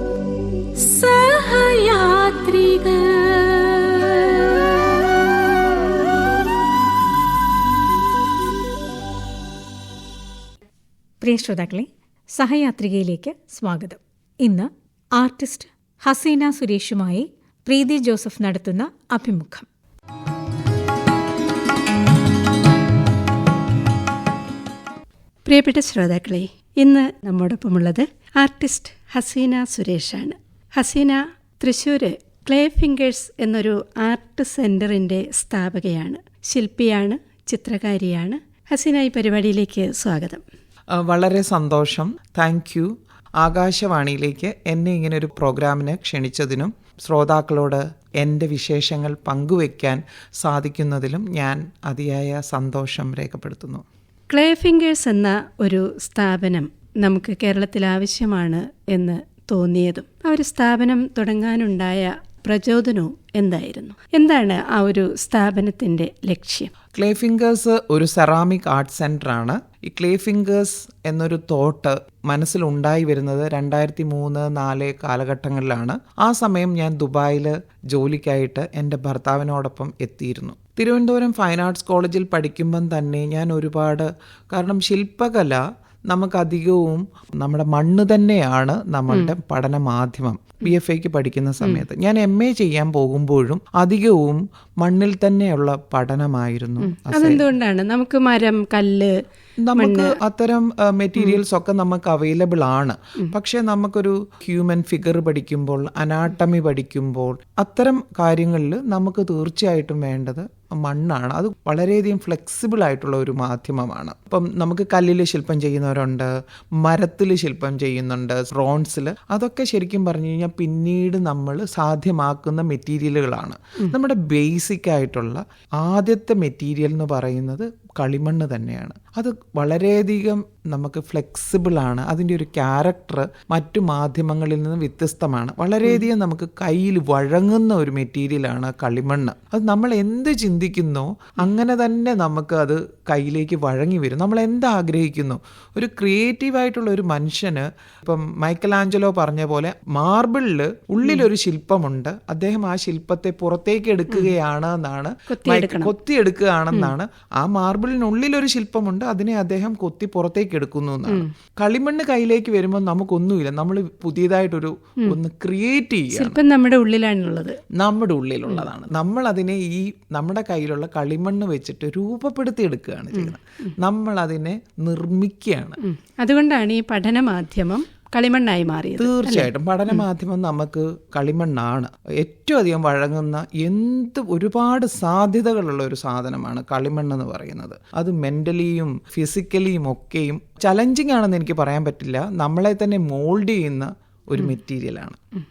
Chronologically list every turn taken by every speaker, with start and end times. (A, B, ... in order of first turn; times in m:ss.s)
0:00.8-0:05.9 A
0:11.2-0:19.7 A
0:25.5-0:40.4 B
0:40.9-0:53.8 C
0:54.3-1:06.7 B
1:06.9-1:37.4 C
1:36.8-1:39.2 B
1:39.6-2:46.4 C
1:39.7-1:40.2 B
2:35.3-2:35.9 B
2:46.1-2:47.6 B
2:47.8-2:55.8 C
2:53.1-2:53.7 B
2:55.8-2:59.5 B
2:59.0-3:15.2 C